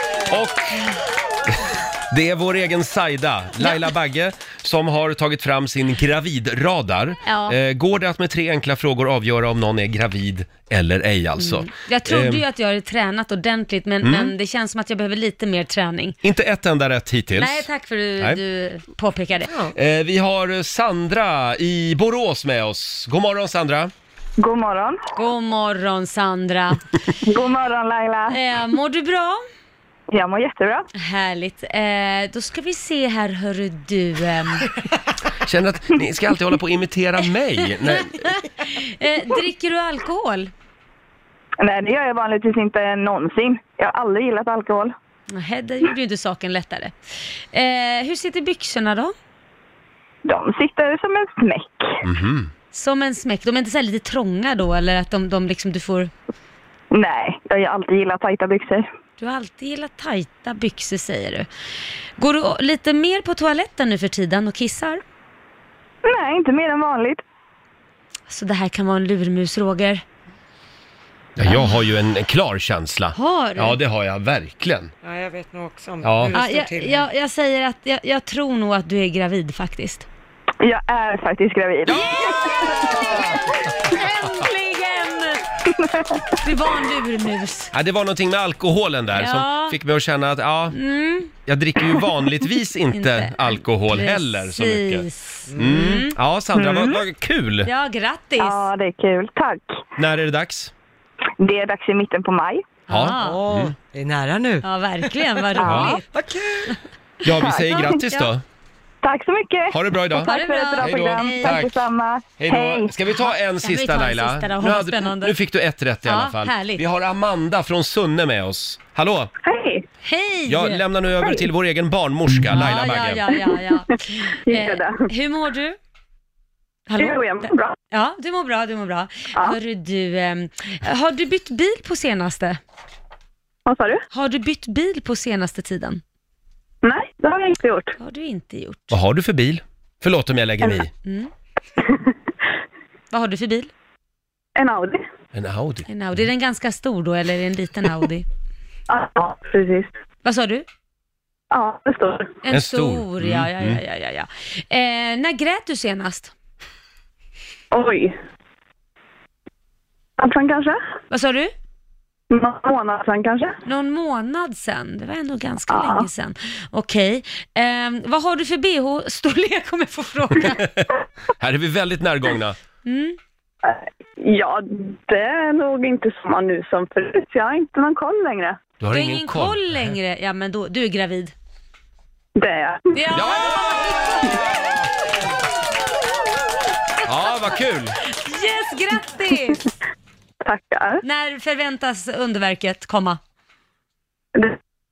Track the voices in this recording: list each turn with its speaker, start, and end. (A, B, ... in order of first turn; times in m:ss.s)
0:00.3-0:00.9 A
0:02.1-0:12.4 A
0:03.6-0:03.8 B
0:07.2-0:07.6 B
0:11.4-0:16.2 B
0:14.0-0:14.3 A
0:16.2-0:17.7 A
0:17.4-0:19.6 B
0:19.7-0:23.9 A
0:24.4-0:25.0 C
0:25.1-0:26.8 B
0:27.2-0:28.4 C
0:28.3-0:29.4 B
0:30.1-0:30.9 C
0:31.0-0:34.7 B
0:35.3-0:38.3 A
0:37.7-0:40.5 B
0:41.6-0:44.9 C
0:45.3-0:46.9 B
0:47.5-0:49.1 B
0:50.2-0:52.0 C
0:52.0-0:52.5 A
0:52.7-0:56.1 B
0:56.9-0:58.8 C
0:59.2-1:01.5 B
1:02.2-1:05.0 B
1:06.0-1:07.2 C
1:08.3-1:10.0 B
1:11.4-1:14.9 A
1:11.4-1:11.7 B
1:13.1-1:13.8 B
1:15.0-1:17.1 D
1:16.0-1:16.4 A
1:16.3-1:20.0 B
1:20.6-1:23.0 C
1:21.9-1:23.4 A
1:21.9-1:25.4 B
1:25.7-1:26.2 C
1:26.4-1:27.7 B
1:27.7-1:30.8 A
1:29.1-1:29.8 B
1:30.7-1:31.3 B
1:31.4-1:37.7 A
1:32.9-1:36.2 B
1:35.5-1:36.0 D
1:36.5-1:37.0 C
1:37.6-1:38.7 B
1:38.4-1:39.8 C
1:40.0-1:40.7 A
1:41.4-1:42.6 C
1:42.9-1:43.4 B
1:42.9-1:43.7 A
1:43.2-1:46.8 D
1:44.6-1:46.1 B
1:45.6-1:46.0 C
1:45.6-1:46.0 A
1:47.2-1:48.4 A
1:47.3-1:48.0 C
1:47.7-1:48.3 B
1:49.0-1:52.9 C
1:49.7-1:51.7 A
1:50.2-1:51.7 B
1:52.4-1:59.3 A
1:53.1-1:55.4 B
1:56.0-1:56.8 B
1:59.4-1:59.8 C
2:00.0-2:00.8 B
2:00.5-2:03.2 A
2:02.5-2:05.8 B
2:04.4-2:05.1 C
2:06.9-2:12.6 B
2:07.0-2:07.7 C
2:13.6-2:14.0 C
2:14.1-2:16.0 B
2:16.8-2:18.0 C
2:18.0-2:19.0 B
2:18.9-2:20.9 A
2:21.0-2:21.3 B
2:21.8-2:22.1 C
2:23.1-2:23.7 B
2:24.6-2:25.0 C
2:25.3-2:26.2 A
2:25.9-2:28.2 B
2:28.9-2:29.9 C
2:30.2-2:30.6 B
2:31.5-2:32.4 C
2:32.4-2:36.3 B
2:32.5-2:33.8 A
2:37.7-2:38.1 C
2:40.2-2:40.8 C
2:41.1-2:41.5 B
2:42.3-2:43.5 C
2:43.6-2:50.7 B
2:45.7-2:46.1 C
2:50.4-2:52.6 A
2:52.8-2:53.2 B
2:53.6-2:58.6 C
2:58.8-2:59.9 A
2:58.9-3:01.3 B
3:02.4-3:03.0 C
3:02.9-3:04.4 B
3:03.1-3:04.9 A
3:07.0-3:08.0 A
3:08.0-3:09.7 B
3:10.4-3:11.0 C
3:11.0-3:13.2 B